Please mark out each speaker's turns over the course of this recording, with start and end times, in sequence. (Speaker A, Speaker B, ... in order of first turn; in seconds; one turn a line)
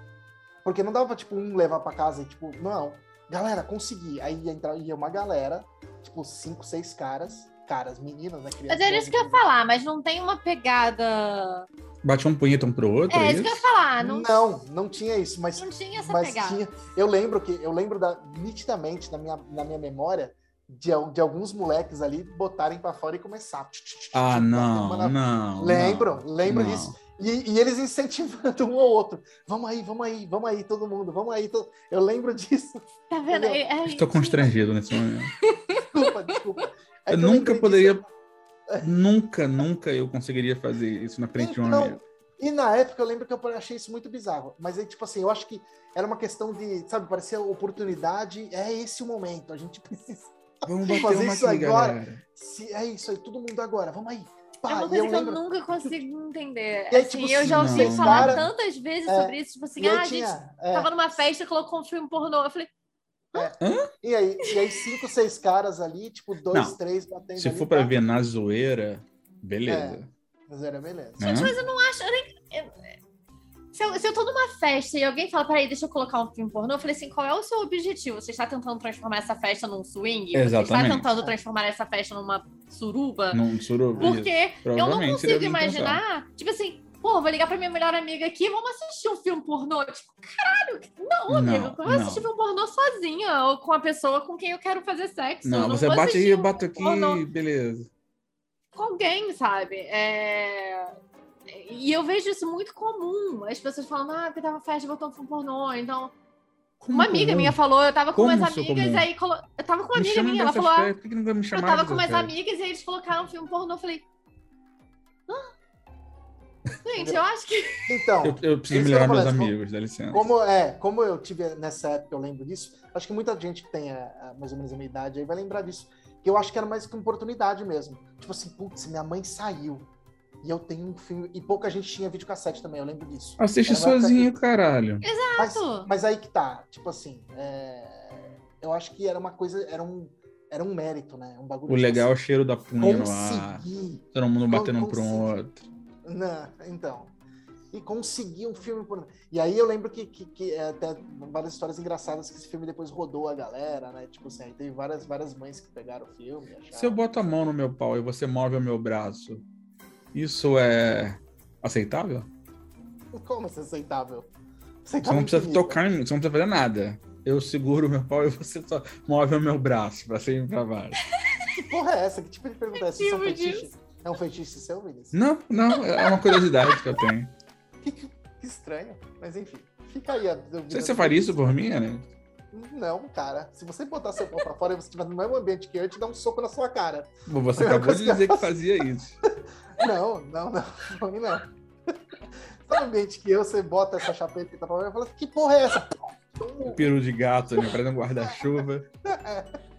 Speaker A: 0.6-9.4
Speaker B: 8.7-11.7
Speaker C: 12.0-13.6
Speaker B: 13.1-14.3
Speaker A: 14.0-33.6
Speaker B: 15.6-16.6
Speaker C: 24.1-26.9
Speaker B: 33.1-34.5
Speaker C: 33.9-35.3
Speaker B: 35.4-36.4
Speaker A: 35.7-38.1
Speaker C: 37.1-38.0
Speaker C: 38.8-42.0
Speaker A: 41.4-55.4
Speaker C: 50.6-52.2
Speaker B: 54.7-62.7
Speaker A: 56.9-58.5
Speaker C: 57.4-58.5
Speaker A: 59.0-61.0
Speaker A: 63.3-68.0
Speaker C: 63.6-63.9
Speaker B: 64.4-64.8
Speaker C: 66.5-66.8
Speaker C: 67.4-70.1
Speaker A: 69.7-71.5
Speaker C: 71.2-71.5
Speaker B: 71.2-72.9
Speaker B: 73.7-83.4
Speaker C: 80.3-81.1
Speaker C: 83.3-86.0
Speaker B: 84.0-97.2
Speaker C: 91.3-92.3
Speaker C: 95.4-97.9
Speaker B: 98.7-101.0
Speaker B: 101.5-106.1
Speaker C: 106.8-107.6
Speaker B: 106.9-110.9
Speaker C: 108.1-109.1
Speaker C: 109.9-112.3
Speaker B: 111.5-114.0
Speaker B: 116.8-118.1
Speaker A: 117.0-117.2
Speaker A: 117.8-119.5
Speaker C: 118.2-120.3
Speaker A: 120.1-129.9
Speaker A: 130.4-134.3
Speaker C: 133.4-135.0
Speaker B: 135.0-135.9
Speaker A: 135.4-142.1
Speaker C: 141.7-145.7
Speaker A: 142.8-145.3
Speaker A: 146.0-147.1
Speaker A: 147.7-157.0
Speaker C: 156.7-159.4
Speaker C: 160.1-162.3
Speaker A: 163.1-164.3
Speaker A: 164.8-165.8
Speaker C: 165.0-171.0
Speaker B: 171.3-171.6
Speaker A: 171.6-175.2
Speaker B: 172.9-173.7
Speaker C: 175.1-177.3
Speaker B: 176.0-176.8
Speaker A: 177.8-181.6
Speaker C: 180.7-182.1
Speaker A: 182.5-188.5
Speaker C: 187.3-189.2
Speaker A: 189.2-196.9
Speaker C: 196.6-198.9
Speaker A: 197.7-199.6